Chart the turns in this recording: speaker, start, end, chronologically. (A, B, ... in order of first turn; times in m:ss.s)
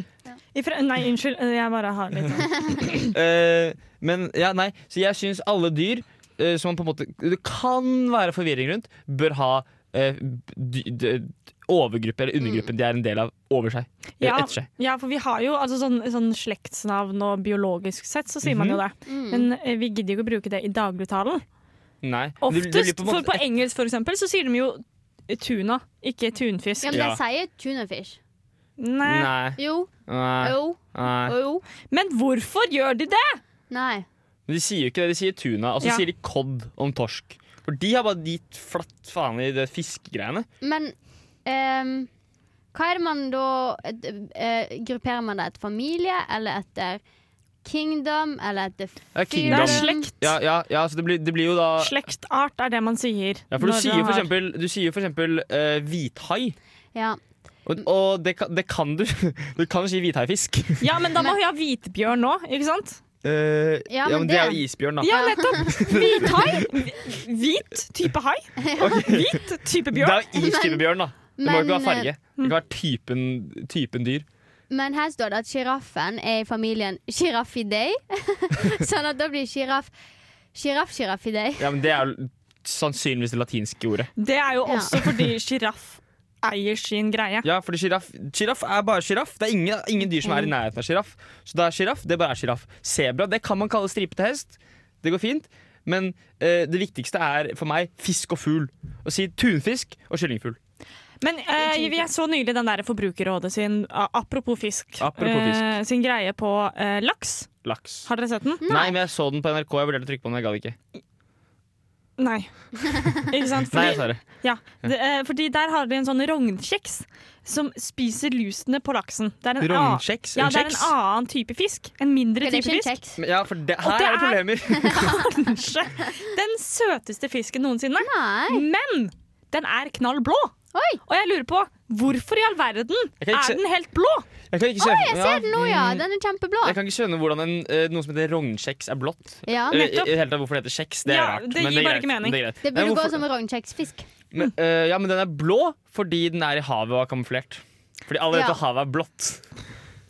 0:00.5-0:03.0 A
0:02.9-0:14.7 B
0:12.4-0:12.7 C
0:14.2-0:21.4 A
0:18.4-0:18.8 B
0:19.0-0:19.5 C
0:22.0-0:23.4 B
0:22.4-0:27.0 A
0:26.8-0:28.2 C
0:26.9-0:27.2 B
0:28.8-0:29.3 A
0:29.0-0:31.3 B
0:29.6-0:31.6 C
0:31.9-0:33.4 A
0:33.7-0:34.0 C
0:34.5-0:40.5 B
0:40.6-0:40.9 C
0:41.4-0:42.1 C
0:42.7-0:47.0 C
0:47.6-0:50.1 C
0:49.1-0:51.9 B
0:49.5-0:50.1 A
0:51.8-0:54.3 A
0:53.5-0:56.6 B
0:56.9-0:57.2 C
0:57.6-1:00.8 B
1:00.8-1:03.0 A
1:03.2-1:06.7 B
1:03.9-1:06.3 C
1:05.0-1:10.2 A
1:08.6-1:09.2 C
1:08.8-1:09.4 B
1:09.9-1:14.2 B
1:10.3-1:12.1 C
1:14.7-1:19.9 C
1:20.5-1:21.7 C
1:21.6-1:24.1 B
1:24.2-1:27.5 A
1:24.6-1:25.0 C
1:27.4-1:40.6 B
1:30.2-1:30.5 C
1:41.2-1:47.5 A
1:41.6-1:42.0 C
1:45.0-1:45.7 B
1:47.6-1:48.1 B
1:48.0-1:48.6 A
1:48.6-1:49.0 C
1:48.6-1:50.8 B
1:52.2-2:02.9 A
1:52.8-1:53.1 C
1:53.7-1:54.2 B
1:59.6-2:00.9 B
2:02.4-2:03.2 C
2:03.2-2:05.1 B
2:03.8-2:10.5 A
2:04.8-2:05.0 C
2:08.0-2:08.6 C
2:10.7-2:11.0 C
2:11.1-2:14.3 A
2:13.2-2:13.6 B
2:14.5-2:16.0 B
2:14.8-2:16.8 C
2:16.6-2:23.2 B
2:19.4-2:19.8 C
2:19.7-2:20.2 A
2:21.0-2:22.4 A
2:22.6-2:24.1 C
2:24.3-2:29.4 B
2:28.3-2:28.6 C